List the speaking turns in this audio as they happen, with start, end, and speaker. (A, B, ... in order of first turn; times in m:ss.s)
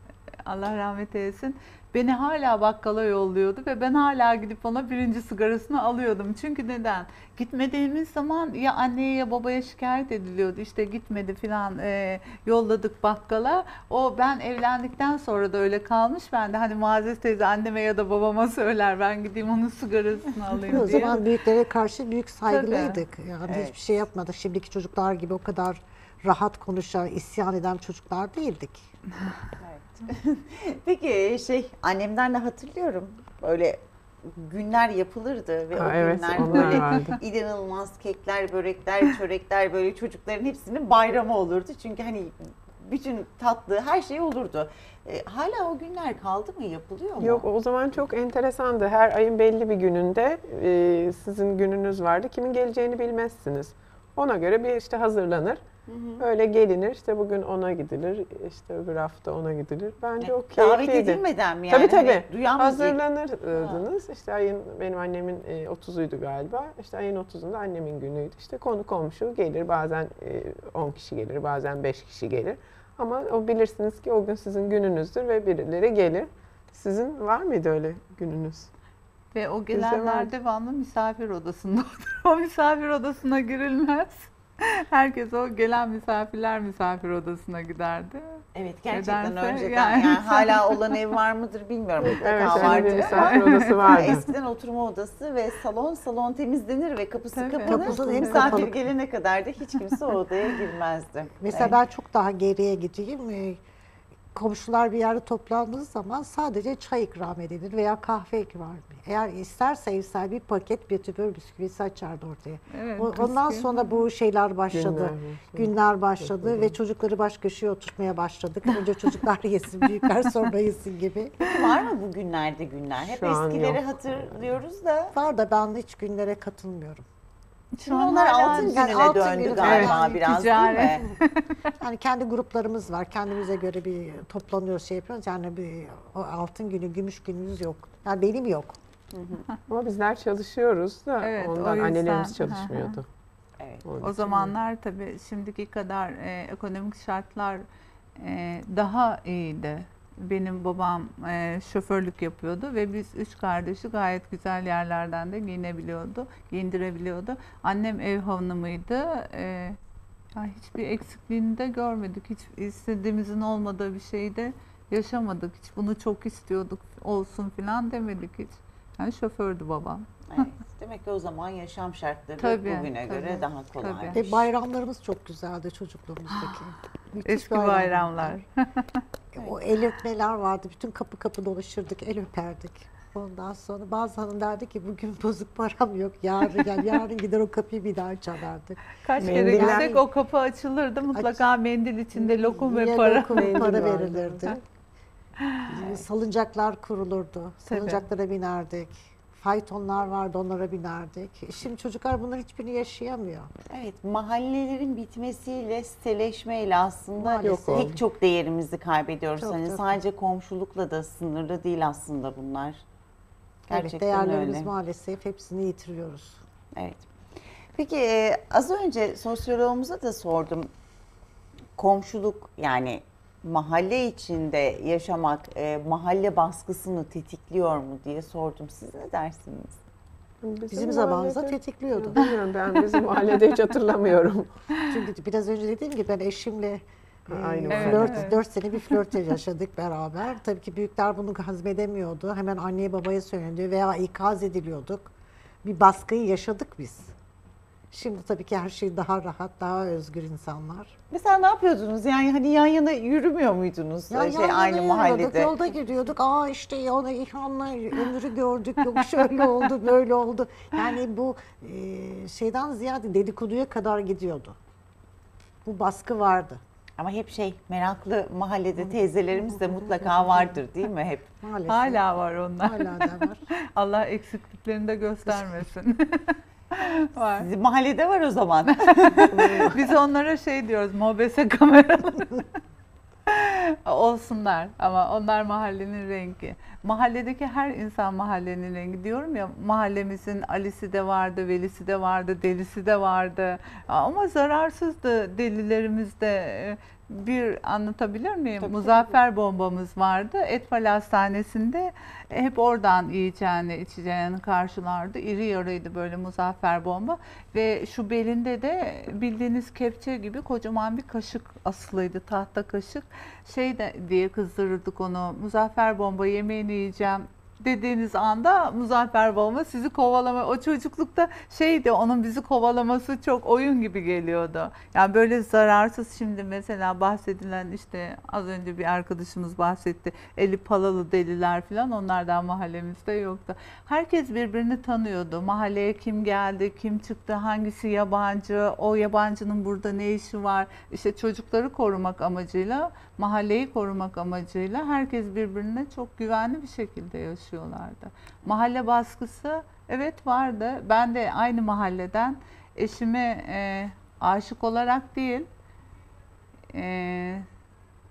0:00.4-0:21.2 A
0:20.7-0:28.9 B
0:22.5-0:23.0 A
0:23.4-0:23.8 C
0:29.6-0:47.4 C
0:35.7-0:37.2 D
0:47.2-0:55.6 D
0:55.9-0:56.2 C
0:56.2-1:18.7 D
1:00.2-1:03.0 C
1:03.5-1:03.8 C
1:19.3-1:30.8 A
1:19.7-1:20.3 D
1:28.5-1:41.8 C
1:32.0-1:34.3 D
1:32.4-1:33.9 A
1:37.3-1:38.6 A
1:37.6-1:38.8 B
1:41.4-1:43.6 B
1:44.3-2:01.4 B
1:52.7-1:53.9 A
1:54.7-1:56.7 D
1:58.7-1:59.2 A
2:01.4-2:05.1 C
2:03.0-2:03.8 D
2:05.1-2:07.0 B
2:07.7-2:11.7 A
2:07.8-2:11.0 C
2:08.4-2:10.4 B
2:09.6-2:10.0 D
2:11.8-2:18.8 B
2:19.1-2:19.5 C
2:19.7-2:23.1 D
2:21.2-2:23.0 A
2:23.6-2:23.8 C
2:23.8-2:24.5 D
2:24.0-2:27.6 A
2:28.2-2:39.8 A
2:40.3-2:50.0 A
2:50.3-2:54.5 C
2:52.4-2:54.2 A
2:54.1-2:58.4 B
2:57.2-2:58.8 A
2:59.3-3:10.0 B
3:09.0-3:14.1 A
3:09.2-3:10.0 D
3:11.1-3:11.4 B
3:12.1-3:14.6 B
3:13.3-3:14.6 D
3:15.7-3:23.5 B
3:15.7-3:16.0 C
3:17.6-3:18.0 A
3:23.7-3:32.8 C
3:27.2-3:27.9 B
3:27.4-3:28.0 D
3:29.4-3:30.0 B
3:33.7-3:34.7 C
3:33.7-3:36.4 B
3:36.7-3:37.1 C
3:37.7-3:40.7 C
3:41.8-3:49.8 C
3:50.4-3:54.5 D
3:50.7-3:52.2 B
3:54.9-4:05.1 B
3:57.3-3:58.3 D
3:57.7-3:58.4 A
4:05.6-4:07.1 B
4:07.9-4:10.9 B
4:11.1-4:15.5 C
4:14.1-4:24.6 B
4:25.6-4:26.6 B
4:27.0-4:31.3 C
4:28.8-4:30.6 B
4:31.4-4:32.1 B
4:31.7-4:33.2 A
4:32.6-4:33.4 B
4:33.7-4:37.5 A
4:37.3-4:39.6 C
4:38.7-4:42.5 A
4:39.3-4:39.8 D
4:43.3-5:55.5 A
4:58.6-4:59.1 D
5:56.7-5:57.5 A